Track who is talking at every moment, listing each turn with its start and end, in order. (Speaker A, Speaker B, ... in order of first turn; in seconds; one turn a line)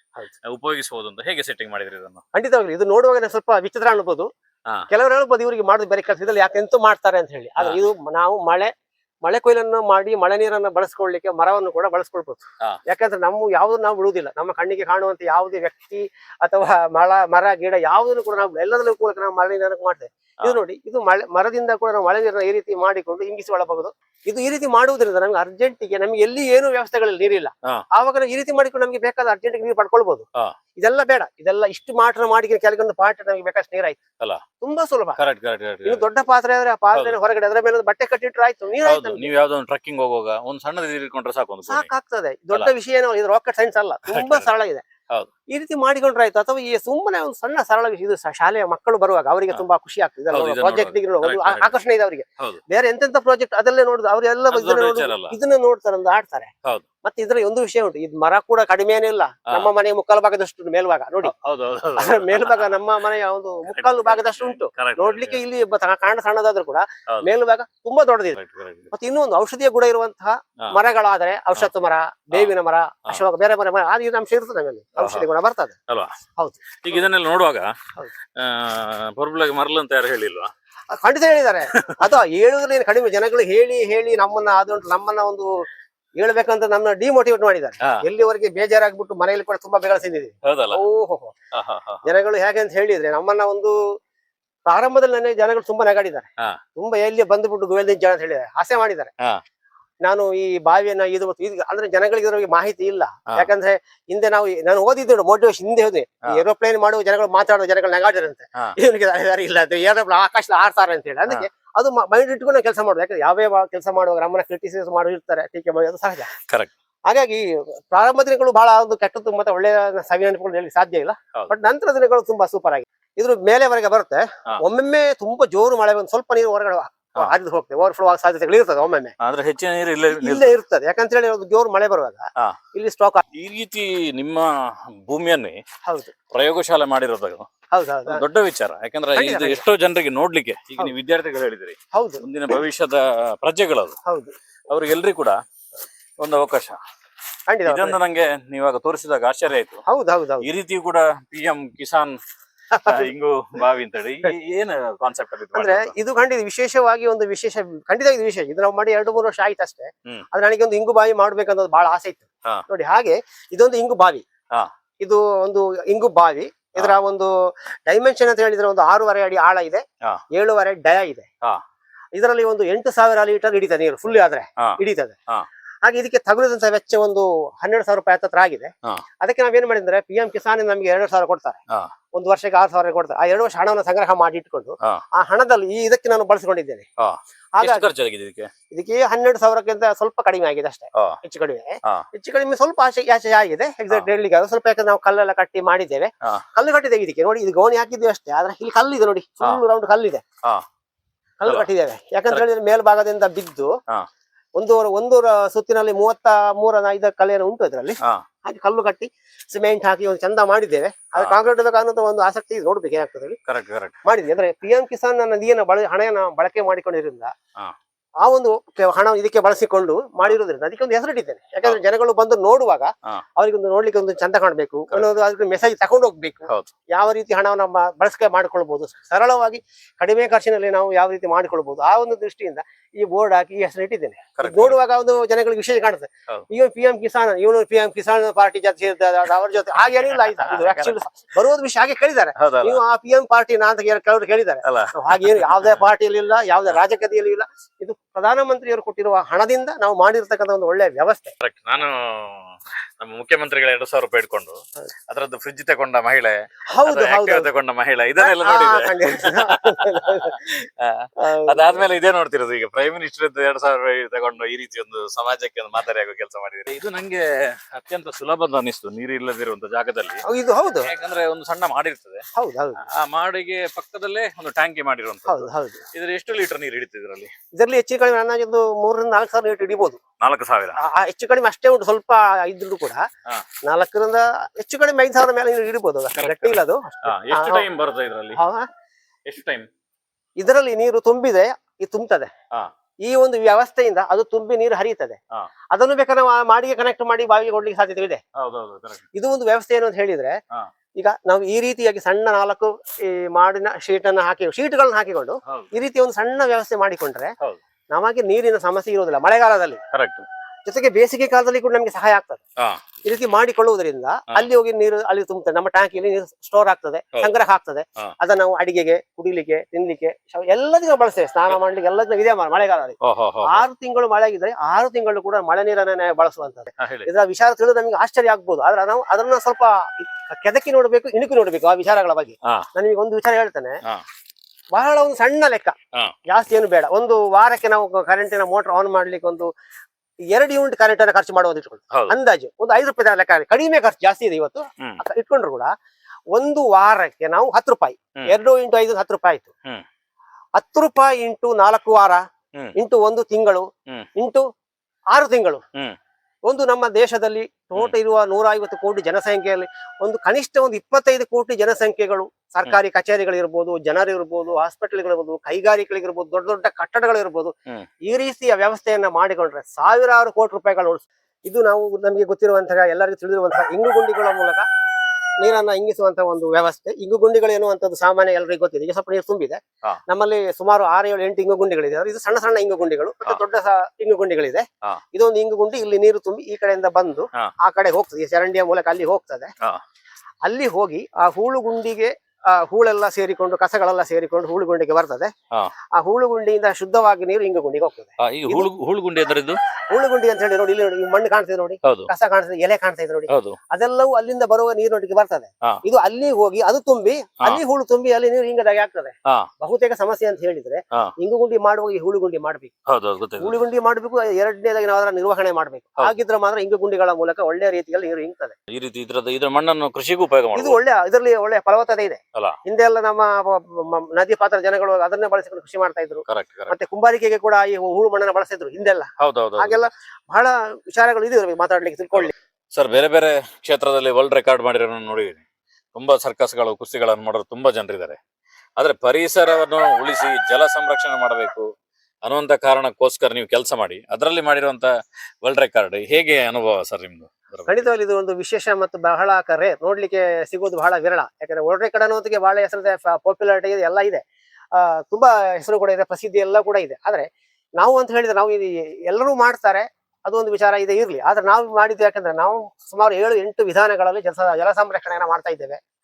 Speaker A: 0.4-2.2
Speaker B: 2.3-4.3
Speaker B: 4.9-8.7
Speaker B: 9.2-30.2
Speaker B: 30.8-34.0
Speaker B: 34.6-35.2
Speaker A: 35.2-36.0
Speaker B: 35.9-39.3
Speaker A: 36.9-37.2
Speaker A: 38.8-41.9
Speaker B: 41.7-44.8
Speaker A: 44.1-44.5
Speaker B: 45.5-56.5
Speaker A: 50.3-51.7
Speaker A: 54.5-55.4
Speaker B: 57.0-61.3
Speaker A: 61.2-62.8
Speaker B: 62.0-68.4
Speaker A: 63.7-65.4
Speaker A: 68.4-68.9
Speaker B: 68.9-75.8
Speaker A: 75.0-75.3
Speaker B: 76.4-77.0
Speaker A: 76.8-77.7
Speaker A: 78.4-80.5
Speaker B: 80.9-85.7
Speaker A: 81.7-82.2
Speaker B: 86.2-91.3
Speaker A: 90.5-90.8
Speaker A: 91.5-92.1
Speaker B: 92.0-93.8
Speaker B: 94.7-99.1
Speaker B: 100.0-116.3
Speaker B: 117.1-129.1
Speaker A: 129.2-130.6
Speaker B: 130.1-133.2
Speaker A: 133.3-135.6
Speaker B: 135.9-136.2
Speaker A: 136.3-137.5
Speaker B: 137.7-138.2
Speaker A: 138.1-144.0
Speaker B: 139.1-139.6
Speaker B: 141.9-142.2
Speaker B: 144.1-144.3
Speaker A: 144.7-145.4
Speaker A: 146.2-146.8
Speaker B: 147.5-148.0
Speaker A: 147.7-149.8
Speaker B: 149.9-150.5
Speaker A: 150.4-152.2
Speaker B: 152.7-153.1
Speaker A: 152.8-155.9
Speaker B: 155.5-164.2
Speaker B: 165.0-167.3
Speaker B: 167.9-171.3
Speaker B: 172.2-175.2
Speaker B: 175.8-181.6
Speaker B: 182.1-186.9
Speaker A: 187.0-188.5
Speaker B: 187.6-187.9
Speaker B: 188.7-200.2
Speaker A: 190.9-191.2
Speaker B: 201.4-203.7
Speaker B: 204.6-213.4
Speaker A: 213.5-214.0
Speaker B: 214.0-217.3
Speaker B: 218.2-251.3
Speaker A: 234.4-234.8
Speaker A: 240.2-241.0
Speaker A: 242.4-242.8
Speaker A: 244.7-245.8
Speaker A: 251.4-270.2
Speaker B: 256.7-257.5
Speaker B: 258.2-260.6
Speaker B: 261.2-261.9
Speaker B: 270.2-270.9
Speaker A: 270.8-272.2
Speaker B: 272.3-272.8
Speaker A: 272.8-277.3
Speaker B: 275.3-275.9
Speaker B: 277.5-280.0
Speaker A: 280.2-280.8
Speaker B: 280.8-283.0
Speaker B: 283.6-287.7
Speaker A: 286.1-288.4
Speaker B: 288.4-288.7
Speaker A: 289.3-289.7
Speaker B: 290.4-292.3
Speaker B: 293.0-295.2
Speaker B: 295.7-298.2
Speaker A: 298.4-299.1
Speaker B: 299.1-300.4
Speaker B: 301.0-307.3
Speaker B: 307.9-309.8
Speaker A: 309.9-310.3
Speaker B: 310.7-312.4
Speaker B: 313.1-333.8
Speaker A: 323.0-323.7
Speaker A: 326.8-327.1
Speaker B: 334.7-335.8
Speaker B: 336.3-339.5
Speaker B: 340.3-345.7
Speaker B: 346.3-349.5
Speaker B: 350.6-352.2
Speaker B: 352.8-354.4
Speaker B: 355.1-355.6
Speaker B: 356.5-374.6
Speaker B: 375.4-389.5
Speaker B: 390.4-395.3
Speaker B: 395.9-398.7
Speaker A: 398.2-399.6
Speaker B: 399.9-412.7
Speaker A: 401.8-402.1
Speaker A: 403.3-403.6
Speaker A: 412.9-413.6
Speaker B: 413.4-418.6
Speaker A: 418.7-420.8
Speaker B: 420.5-432.3
Speaker A: 426.3-426.8
Speaker A: 429.2-429.9
Speaker A: 432.1-435.4
Speaker A: 435.9-438.2
Speaker A: 438.8-441.7
Speaker A: 442.2-444.9
Speaker A: 445.4-447.9
Speaker B: 447.7-457.3
Speaker B: 457.8-465.8